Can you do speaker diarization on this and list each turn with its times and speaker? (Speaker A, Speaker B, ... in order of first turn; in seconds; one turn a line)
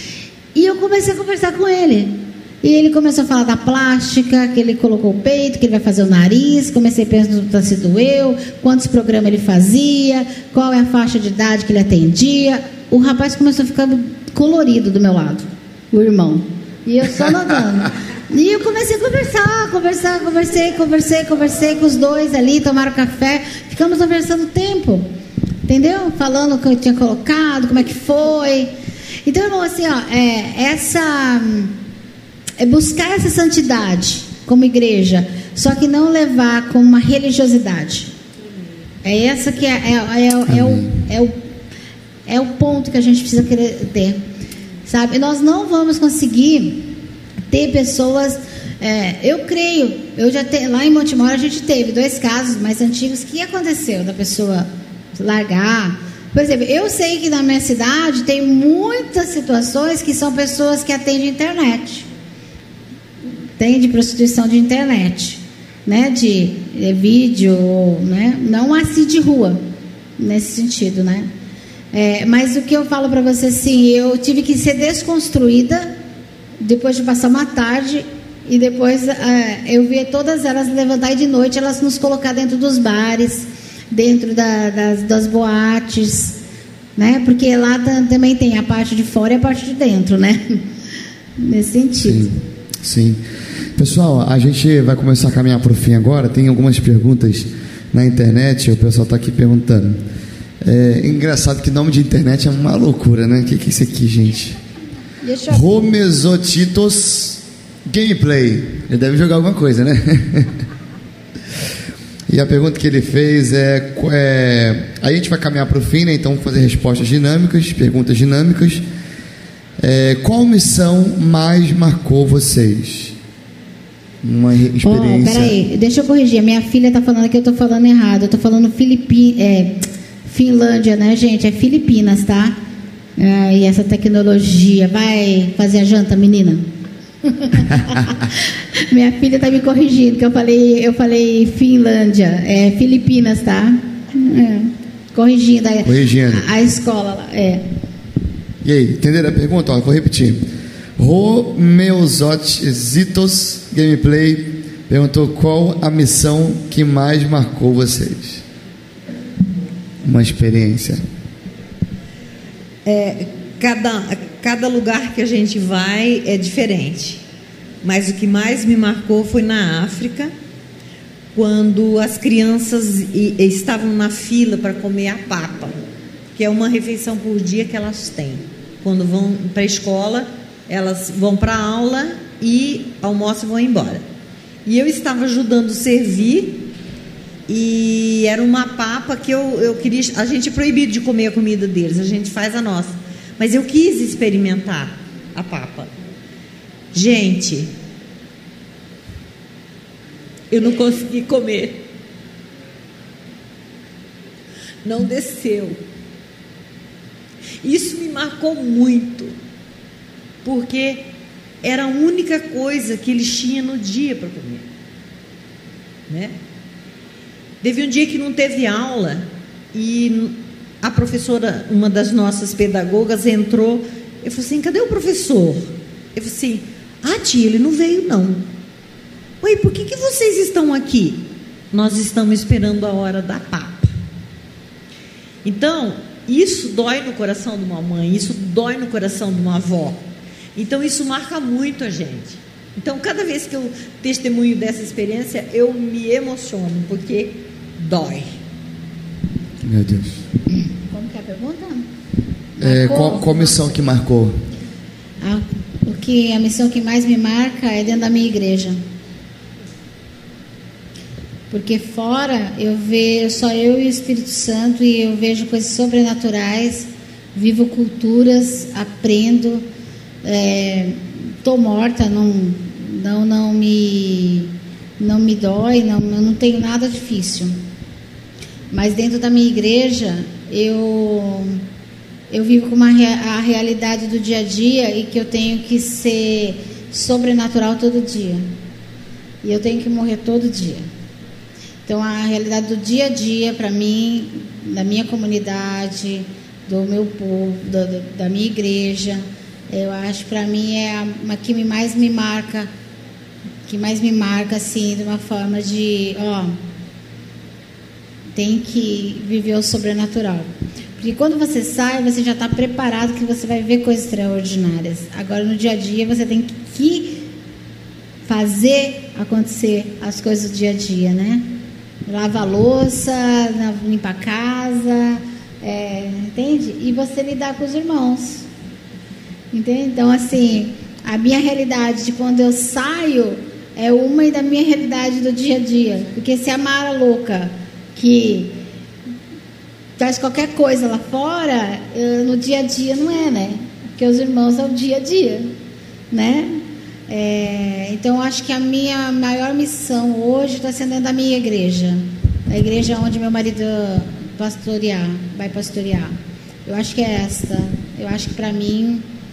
Speaker A: 0.6-25.1
Speaker A: 25.7-28.7
Speaker A: 29.3-31.7
Speaker A: 32.6-38.1
Speaker A: 39.0-41.4
Speaker B: 40.5-40.9
Speaker A: 42.3-44.2
Speaker A: 44.9-46.9
Speaker A: 47.5-62.1
Speaker A: 63.6-69.6
Speaker A: 70.2-71.3
Speaker A: 71.9-75.9
Speaker A: 76.6-86.4
Speaker A: 87.0-90.6
Speaker A: 91.4-92.3
Speaker B: 92.0-93.2
Speaker B: 93.8-100.0
Speaker B: 100.6-104.6
Speaker A: 105.2-105.9
Speaker B: 105.5-110.6
Speaker B: 112.3-118.8
Speaker B: 119.8-123.2
Speaker B: 124.2-125.6
Speaker A: 124.8-132.6
Speaker A: 133.2-136.7
Speaker A: 137.2-147.6
Speaker B: 145.8-146.4
Speaker B: 148.6-150.4
Speaker B: 151.0-158.4
Speaker B: 160.0-161.0
Speaker C: 162.8-167.2
Speaker C: 167.8-170.3
Speaker C: 171.3-175.8
Speaker C: 176.3-184.0
Speaker C: 184.7-186.7
Speaker C: 187.5-195.9
Speaker C: 196.9-197.7
Speaker C: 200.5-201.8
Speaker C: 204.8-205.8
Speaker C: 207.6-209.4
Speaker C: 210.4-211.1
Speaker C: 211.6-214.7
Speaker C: 216.1-216.3
Speaker C: 217.6-228.4
Speaker C: 229.4-233.9
Speaker C: 235.4-240.0
Speaker C: 240.6-248.3
Speaker B: 249.6-250.2
Speaker A: 250.9-251.9
Speaker A: 252.6-253.7
Speaker B: 252.6-254.4
Speaker A: 255.2-258.8
Speaker A: 261.5-269.7
Speaker A: 270.2-277.6
Speaker A: 278.7-281.6
Speaker A: 282.3-288.5
Speaker A: 289.4-290.9
Speaker A: 291.9-302.7
Speaker A: 303.7-306.6
Speaker A: 308.3-317.2
Speaker A: 318.3-321.4
Speaker A: 322.1-328.5
Speaker A: 329.5-338.6
Speaker A: 340.0-345.5
Speaker A: 346.1-359.1